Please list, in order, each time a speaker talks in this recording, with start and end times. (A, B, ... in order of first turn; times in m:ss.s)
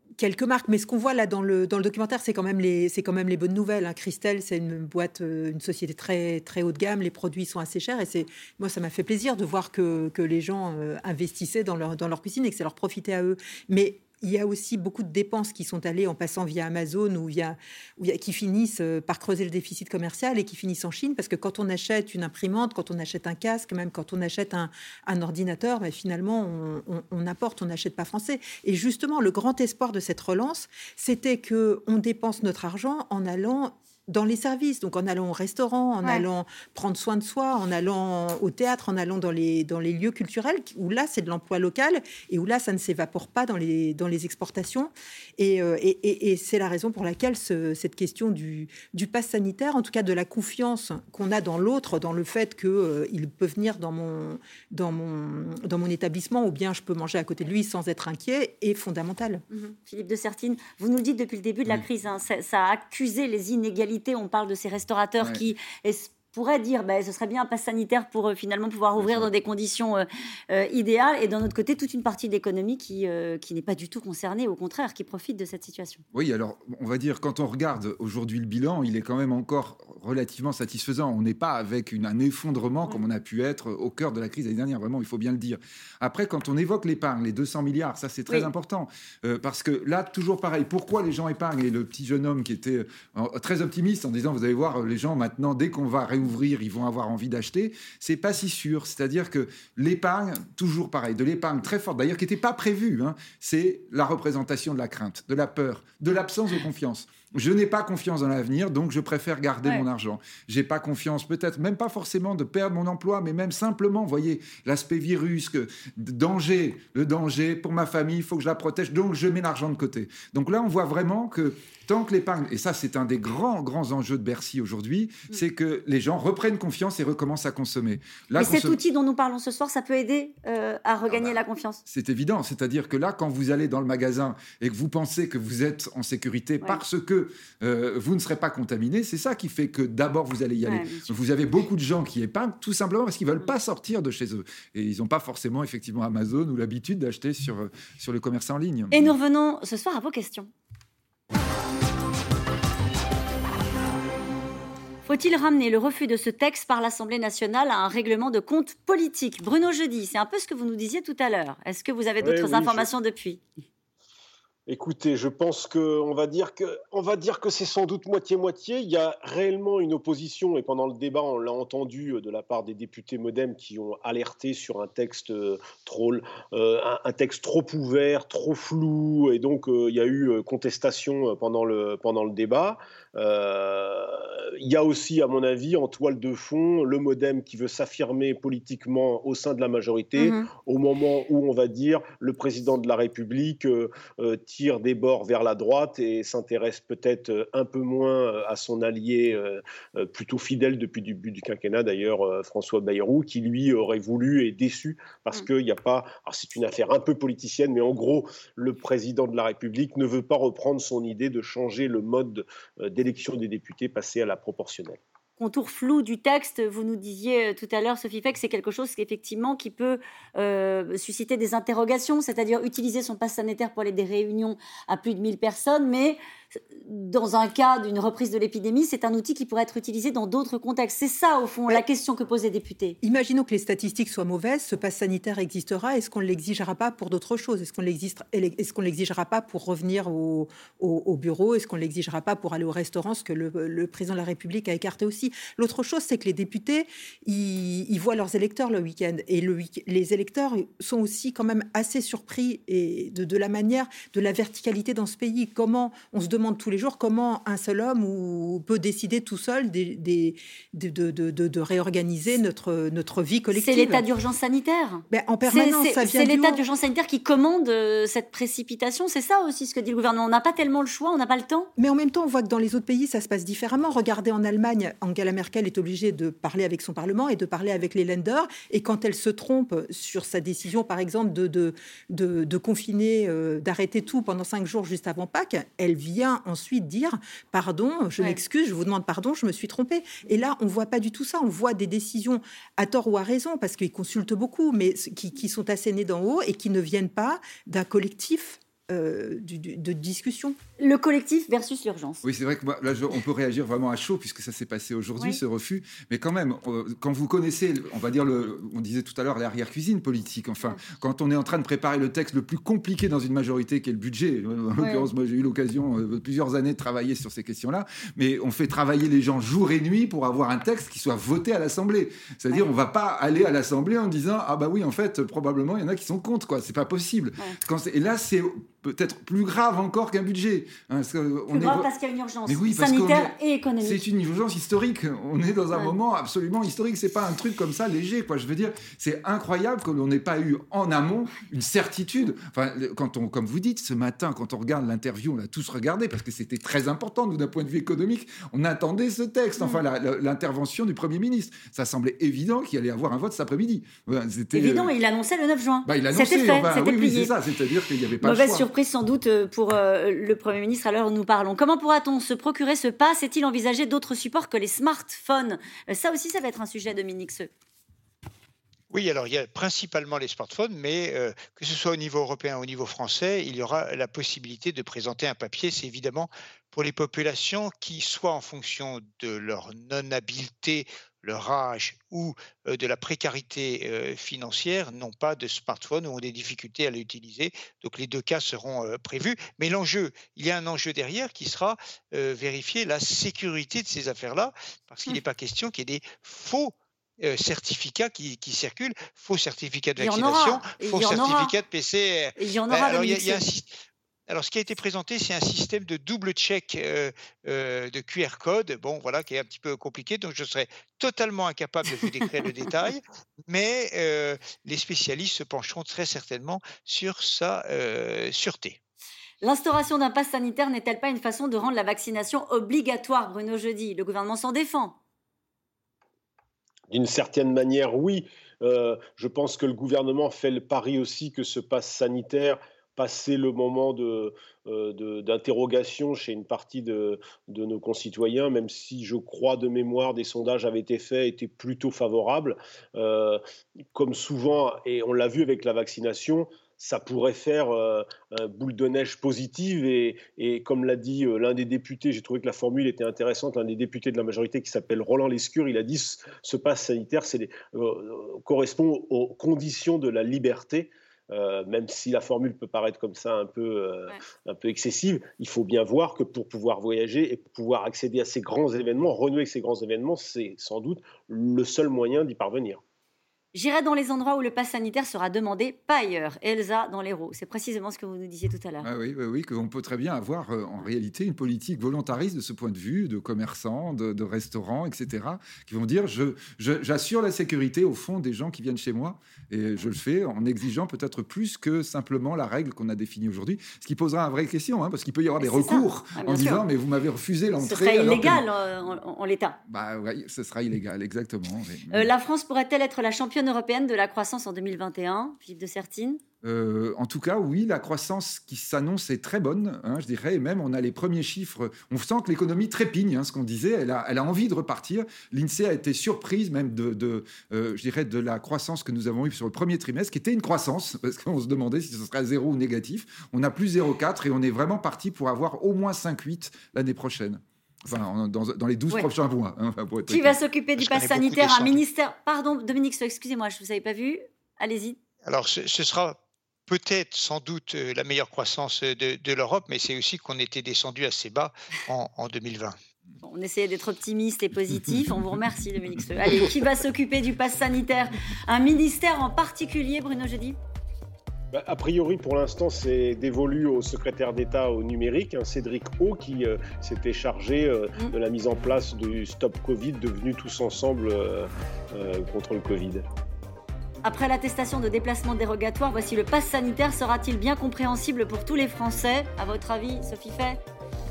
0:00.2-0:59.4 A
0:59.5-1:16.0 B
1:09.0-1:09.3 C
1:16.1-2:08.8 C
2:08.4-2:11.8 B
2:11.1-2:29.1 C
2:20.6-2:21.1 B
2:28.9-2:30.5 B
2:35.0-2:43.4 B
2:42.2-2:42.9 D
2:44.7-3:35.0 D
3:10.2-3:10.5 B
3:35.4-3:46.2 B
3:46.7-3:53.0 B
3:53.0-4:24.0 A
4:23.5-4:31.7 B
4:25.1-4:26.6 A
4:31.8-5:00.6 A
5:00.8-5:02.2 B
5:02.2-5:31.9 C
5:14.8-5:15.1 B
5:31.5-5:34.0 B
5:32.5-5:54.9 C
5:54.5-5:57.3 B
5:55.8-5:58.7 C
5:58.2-6:07.5 B
6:08.9-6:43.7 E
6:40.0-6:41.5 B
6:42.4-6:43.4 B
6:44.3-6:58.8 E
6:59.4-7:05.0 B
7:06.9-7:23.4 D
7:23.9-7:52.8 D
7:53.5-7:58.9 B
7:58.8-8:18.4 C
8:15.4-8:16.6 B
8:17.6-8:19.6 B
8:19.7-8:22.1 C
8:21.9-8:26.2 B
8:26.4-8:50.4 C
8:50.1-8:55.0 B
8:50.8-8:51.8 E
8:55.2-9:02.8 E
9:03.2-9:10.6 B
9:11.5-9:23.0 D
9:24.0-9:30.6 B